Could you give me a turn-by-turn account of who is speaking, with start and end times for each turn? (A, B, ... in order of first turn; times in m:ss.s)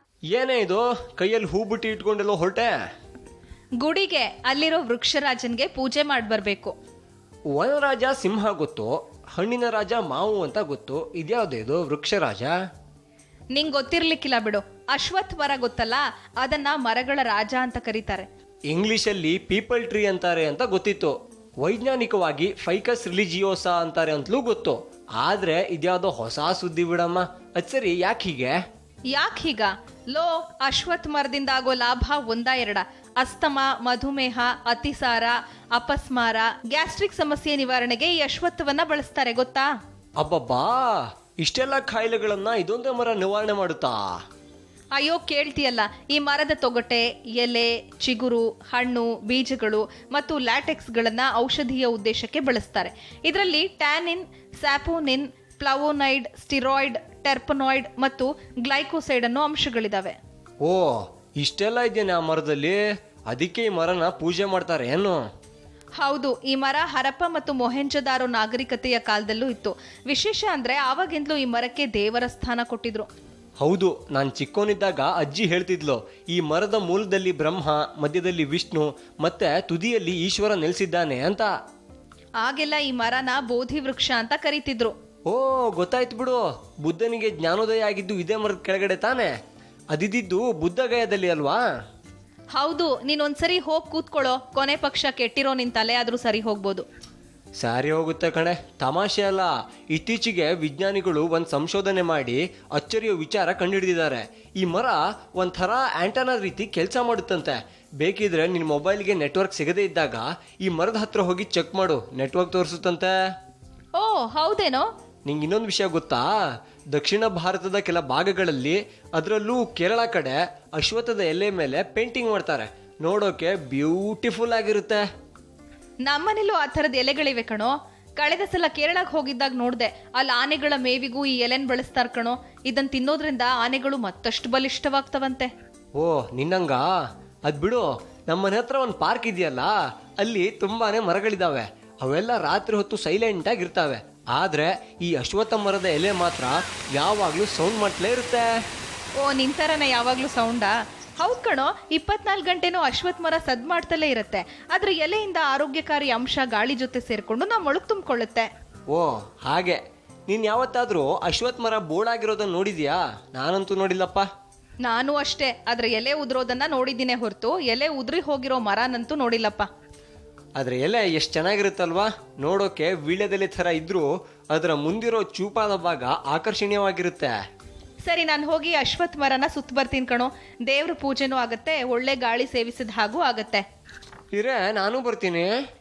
0:00.3-0:02.7 A
0:03.8-0:06.7 B
0:07.5-0:12.6 A
0:13.6-0:18.3 B
0:18.7-0:28.6 A
0:29.1-0:39.7 B
0:40.2-0:44.0 A
0:45.0-1:00.2 B
1:00.6-1:05.2 A
1:06.0-1:13.1 B
1:13.6-1:21.5 A
1:22.4-1:24.9 B
1:25.3-1:29.3 A
1:29.9-1:31.6 A
1:32.6-1:36.8 B
1:37.6-1:53.1 A
1:54.0-1:54.9 B
1:55.3-1:56.3 A
1:56.9-2:05.0 A
2:06.1-2:15.5 B
2:16.0-2:16.9 A
2:17.5-2:28.5 A
2:29.2-2:38.5 B
2:38.9-2:44.3 A
2:44.8-2:49.7 B
2:50.6-2:57.3 A
2:58.1-3:03.6 B
3:04.4-3:05.5 A